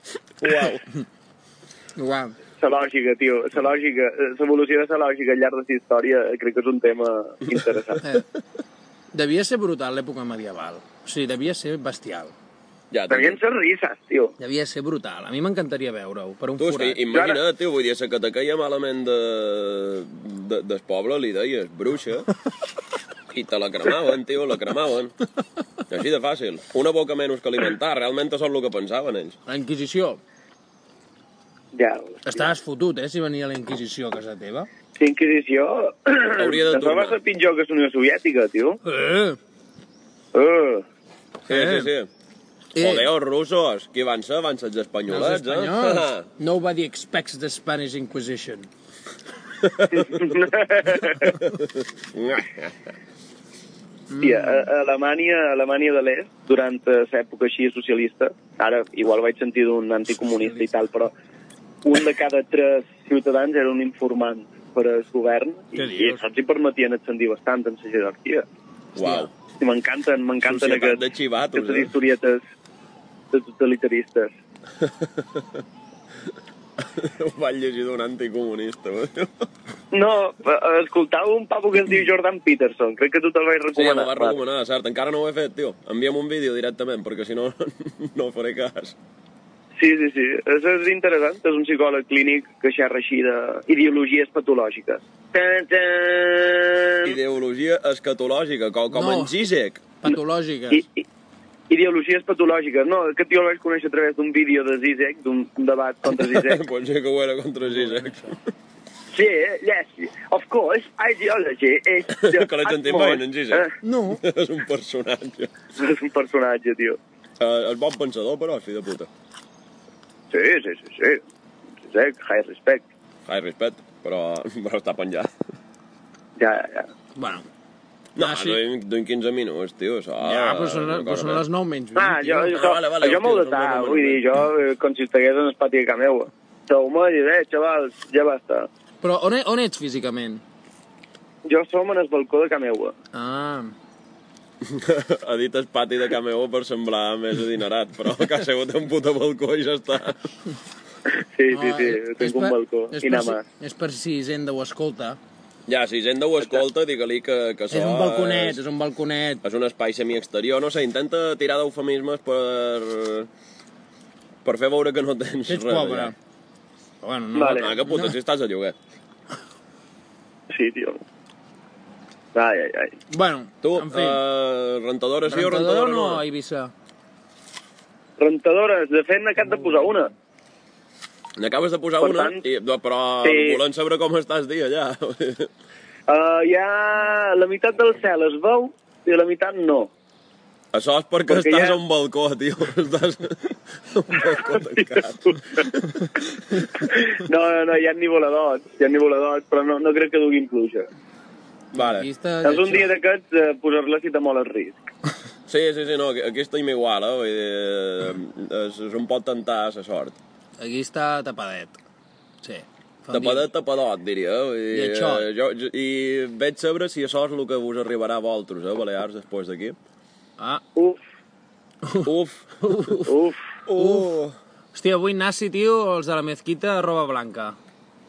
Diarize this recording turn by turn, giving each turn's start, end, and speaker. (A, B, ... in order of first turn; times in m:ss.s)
0:00.4-0:00.8 A
0:02.0-0:02.3 B
0:02.6-0:08.0 C
0:09.1-0:12.3 B
0:12.9-0:13.4 A
0:13.1-0:14.3 C
0:14.4-0:17.0 B
0:16.6-0:22.3 A
0:17.1-0:17.4 C
0:23.3-0:25.1 A
0:25.9-0:29.4 A
0:29.4-0:30.2 B
0:31.7-0:32.5 C
0:32.2-0:34.7 B
0:35.0-0:38.8 C
0:36.4-0:37.2 A
0:38.8-0:39.4 B
0:40.3-0:40.8 C
0:41.5-0:41.9 B
0:41.5-0:42.1 A
0:42.7-0:43.1 B
0:42.8-0:46.2 A
0:45.1-0:48.7 B
0:49.6-0:50.0 A
0:49.9-0:51.4 C
0:51.4-0:52.7 A
0:54.1-0:54.6 B
0:54.2-1:01.1 C
1:00.1-1:00.7 B
1:01.8-1:08.4 C
1:05.7-1:06.2 B
1:09.0-1:09.3 A
1:09.0-1:09.3 B
1:09.6-1:11.0 C
1:10.4-1:11.9 A
1:11.5-1:12.4 C
1:13.3-1:14.3 C
1:14.8-1:15.4 A
1:16.8-1:19.4 A
1:19.9-1:24.4 C
1:23.8-1:29.0 A
1:29.8-1:37.1 C
1:37.0-1:39.8 A
1:38.9-1:39.3 B
1:40.0-1:40.8 B
1:40.7-1:41.0 C
1:41.7-1:46.6 C
1:46.1-1:48.4 A
1:47.6-1:48.3 B
1:49.1-1:53.7 C
1:52.2-1:55.5 A
1:53.8-1:54.2 B
1:55.8-1:57.0 C
1:57.4-1:59.1 A
2:00.3-2:01.2 C
2:01.8-2:02.8 C
2:03.3-2:05.3 A
2:06.4-2:06.9 C
2:07.1-2:07.4 B
2:08.2-2:11.4 A
2:08.2-2:08.6 B
2:10.2-2:12.5 B
2:11.9-2:18.7 C
2:12.3-2:14.2 A
2:19.0-2:20.4 B
2:21.4-2:22.9 C
2:23.1-2:23.7 B
2:24.6-2:30.2 A
2:31.2-2:33.4 C
2:31.5-2:35.2 B
2:35.7-2:38.6 A
2:37.7-2:39.4 B
2:39.4-2:43.3 A
2:44.4-2:46.1 A
2:45.5-2:46.1 B
2:47.0-2:48.1 B
2:47.3-2:47.7 C
2:47.5-2:48.8 A
2:50.5-2:51.0 C
2:52.3-2:52.9 C
2:53.1-2:54.2 B
2:53.6-2:56.2 A
2:55.2-2:56.7 B
2:58.2-3:00.1 C
3:01.4-3:05.5 A
3:02.0-3:02.4 C
3:03.2-3:03.6 C
3:06.1-3:09.9 C
3:10.7-3:16.2 A
3:11.2-3:11.8 C
3:14.3-3:15.4 C
3:16.8-3:20.8 C
3:21.7-3:22.1 A
3:21.8-3:22.9 B
3:22.4-3:24.8 C
3:25.5-3:30.2 A
3:30.6-3:31.8 B
3:32.4-3:33.5 B
3:33.1-3:39.8 A
3:34.7-3:35.3 B
3:40.8-3:41.0 C
3:42.0-3:43.0 A
3:42.6-3:43.1 B
3:43.1-3:43.4 C
3:43.7-3:44.3 A
3:43.7-3:44.2 B
3:44.7-3:47.6 B